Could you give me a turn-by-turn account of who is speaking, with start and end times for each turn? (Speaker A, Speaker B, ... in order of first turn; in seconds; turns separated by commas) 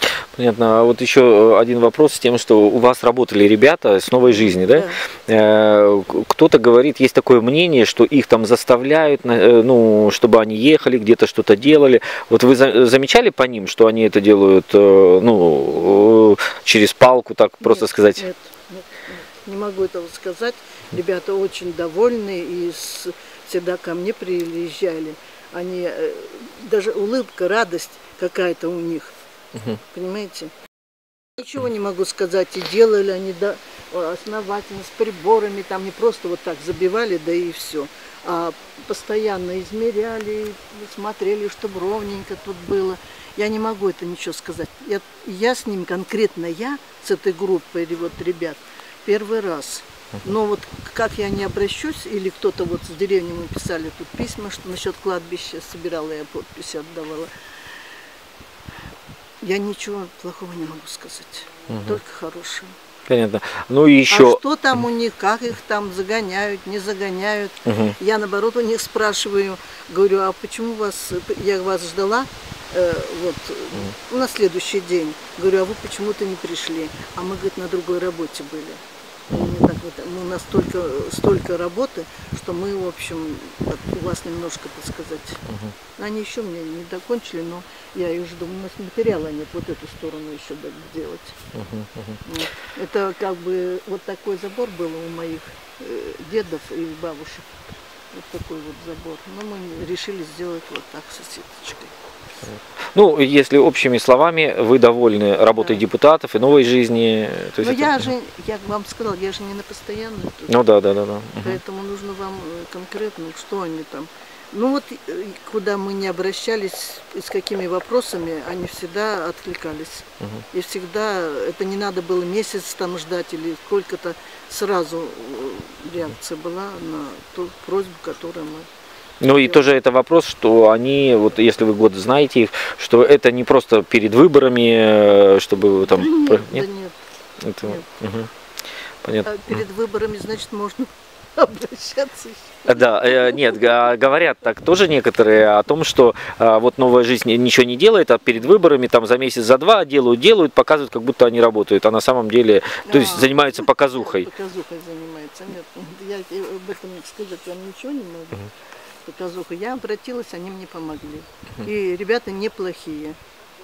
Speaker A: 0.2-18.3, Speaker B: 4.3-5.0, Speaker B: 17.6-29.1, Speaker B: 29.8-30.5, Speaker B: 31.4-57.3, Speaker B: 59.4-62.8, Speaker A: 61.7-62.0, Speaker A: 63.1-64.4, Speaker B: 64.1-85.4, Speaker A: 67.7-68.0, Speaker A: 85.5-85.7, Speaker B: 86.0-91.3, Speaker A: 91.5-92.2, Speaker B: 92.3-97.5, Speaker B: 98.1-101.9, Speaker A: 102.5-108.1, Speaker B: 107.6-110.5, Speaker A: 110.5-111.6, Speaker B: 111.4-128.7, Speaker A: 129.2-136.7, Speaker B: 129.4-129.7, Speaker B: 135.8-137.0, Speaker A: 137.4-138.3, Speaker B: 137.6-137.9, Speaker A: 139.0-139.3, Speaker B: 139.2-143.9, Speaker A: 142.7-154.3, Speaker B: 152.8-158.5, Speaker B: 159.1-163.2